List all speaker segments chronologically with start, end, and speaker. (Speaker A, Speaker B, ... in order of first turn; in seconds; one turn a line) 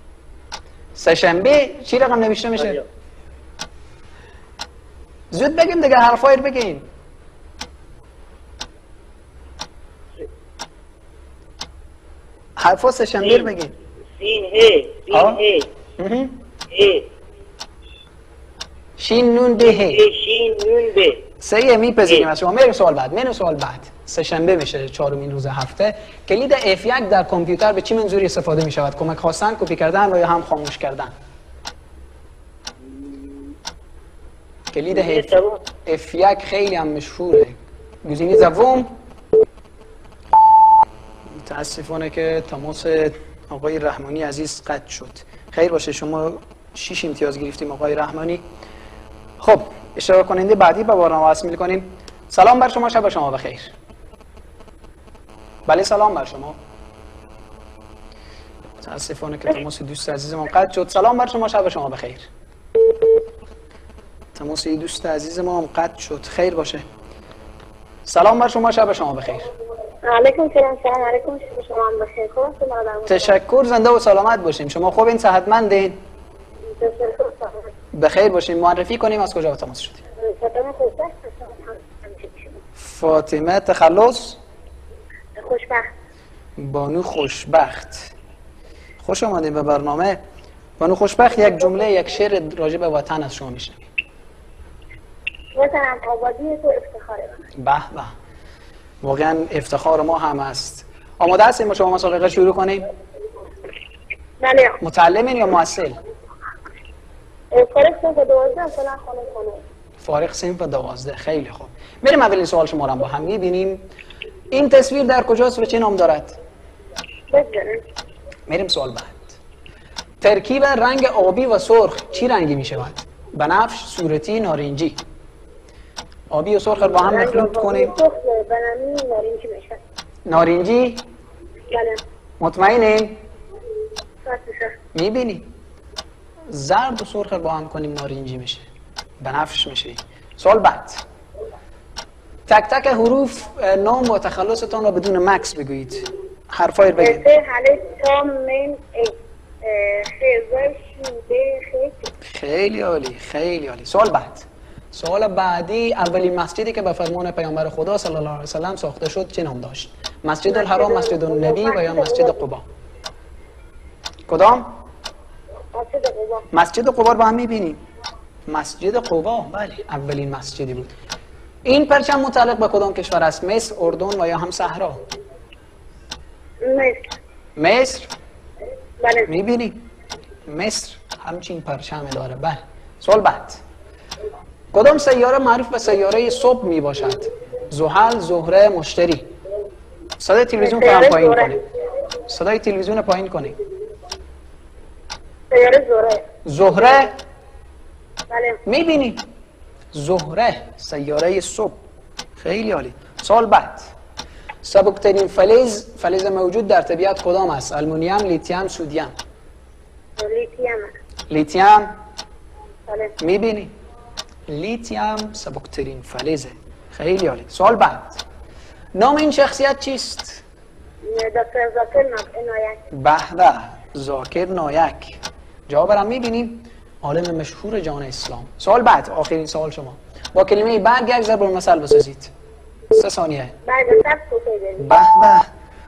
Speaker A: 0.9-2.8
Speaker A: 5.3-6.8
Speaker A: 12.6-13.7
Speaker B: 13.2-13.5
Speaker B: 14.2-15.7
Speaker A: 15.1-15.4
Speaker A: 16.0-16.4
Speaker B: 16.7-17.1
Speaker A: 19.0-20.0
Speaker B: 19.6-21.2
Speaker A: 21.4-31.1
Speaker B: 32.9-33.4
Speaker A: 34.7-38.9
Speaker B: 34.9-35.6
Speaker A: 41.3-48.4
Speaker A: 49.4-53.7
Speaker A: 55.6-56.6
Speaker A: 58.8-62.2
Speaker A: 64.3-66.8
Speaker A: 68.0-69.5
Speaker C: 70.0-73.4
Speaker A: 73.1-76.0
Speaker C: 76.7-77.7
Speaker A: 77.9-80.0
Speaker C: 80.2-82.5
Speaker A: 82.8-84.4
Speaker C: 85.3-85.9
Speaker A: 86.6-88.1
Speaker A: 89.0-90.2
Speaker A: 90.8-93.9
Speaker C: 95.5-97.4
Speaker A: 97.6-98.1
Speaker A: 99.0-102.8
Speaker C: 104.4-104.8
Speaker A: 104.8-106.0
Speaker C: 107.5-109.6
Speaker A: 110.0-113.8
Speaker A: 114.5-116.4
Speaker C: 117.3-117.8
Speaker A: 118.5-119.3
Speaker A: 120.2-125.0
Speaker A: 126.3-127.9
Speaker C: 126.9-129.8
Speaker A: 130.2-131.1
Speaker C: 131.7-132.0
Speaker A: 132.4-133.2
Speaker C: 134.2-134.8
Speaker A: 134.9-135.5
Speaker A: 136.5-138.7
Speaker A: 139.2-141.0
Speaker A: 142.5-147.2
Speaker C: 147.0-152.1
Speaker A: 152.2-162.6
Speaker C: 160.5-162.4
Speaker A: 164.3-164.7
Speaker C: 165.7-166.5
Speaker A: 166.5-167.8
Speaker A: 168.5-170.9
Speaker A: 171.6-175.0
Speaker C: 176.6-177.0
Speaker A: 177.6-178.1
Speaker C: 179.0-179.3
Speaker A: 179.3-179.8
Speaker A: 180.5-183.6
Speaker A: 184.7-189.3
Speaker A: 190.2-191.6
Speaker C: 190.6-191.6
Speaker A: 192.2-193.6
Speaker C: 195.5-196.2
Speaker A: 196.4-197.1
Speaker C: 198.3-198.6
Speaker A: 198.6-199.3
Speaker A: 199.9-201.8
Speaker A: 202.4-203.9
Speaker A: 204.6-209.1
Speaker C: 210.2-210.9
Speaker A: 211.3-212.0
Speaker C: 212.9-213.1
Speaker A: 213.2-213.7
Speaker A: 214.5-218.2
Speaker A: 218.9-220.4
Speaker C: 221.0-222.8
Speaker A: 222.9-232.3
Speaker A: 232.9-233.5
Speaker C: 233.6-235.1
Speaker A: 234.8-235.5